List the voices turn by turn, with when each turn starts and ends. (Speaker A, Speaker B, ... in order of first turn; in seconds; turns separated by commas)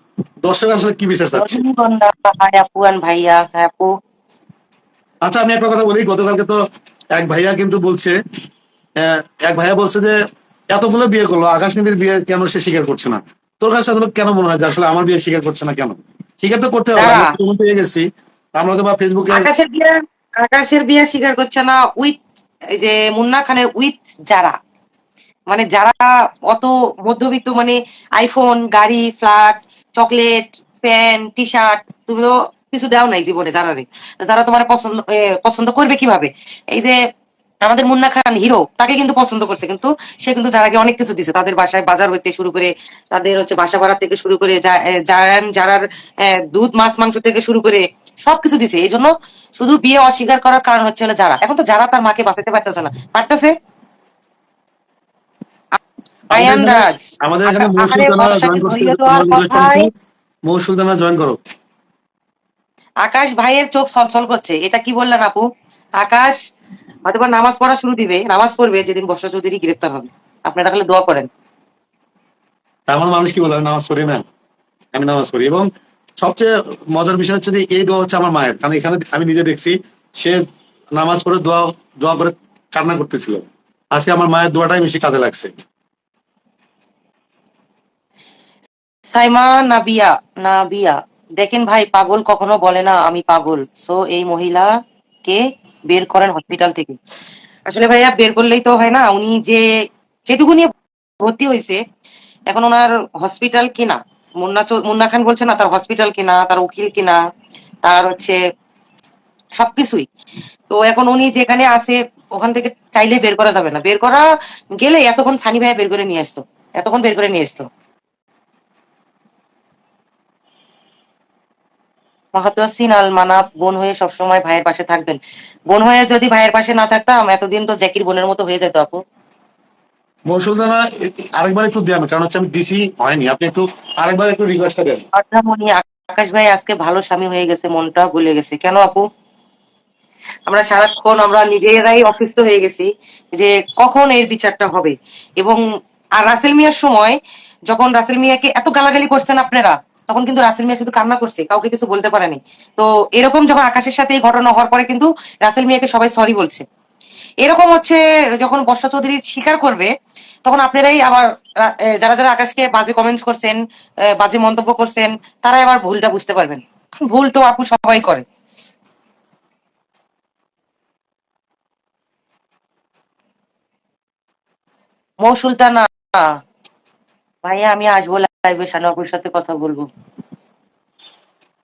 Speaker A: 0.4-1.6, Speaker B: 1.3-3.9, Speaker A: 5.2-6.6, Speaker A: 7.1-8.2, Speaker A: 9.0-10.2, Speaker A: 10.7-18.1, Speaker B: 17.0-17.3, Speaker A: 18.6-19.5, Speaker B: 19.3-22.2, Speaker B: 22.8-24.6, Speaker B: 25.5-37.0, Speaker B: 37.6-53.5, Speaker B: 56.3-59.9, Speaker A: 56.4-59.9, Speaker A: 60.5-61.4, Speaker B: 63.0-65.5, Speaker B: 66.0-66.4, Speaker B: 67.0-71.3, Speaker A: 72.9-74.2, Speaker A: 74.9-75.7, Speaker A: 76.2-85.5, Speaker B: 89.1-94.7, Speaker B: 95.2-97.0, Speaker B: 97.7-99.7, Speaker B: 100.3-100.7, Speaker B: 101.2-101.8, Speaker B: 102.5-107.2, Speaker B: 107.8-108.4, Speaker B: 109.6-110.1, Speaker B: 110.7-114.2, Speaker B: 114.8-117.7, Speaker B: 122.3-125.2, Speaker B: 125.7-129.0, Speaker A: 130.3-135.0, Speaker B: 135.2-139.1, Speaker B: 140.5-145.6, Speaker B: 146.2-147.2, Speaker B: 147.7-156.6, Speaker B: 157.4-159.9, Speaker B: 160.5-163.6, Speaker B: 164.1-168.2, Speaker B: 175.2-176.4, Speaker B: 177.4-179.9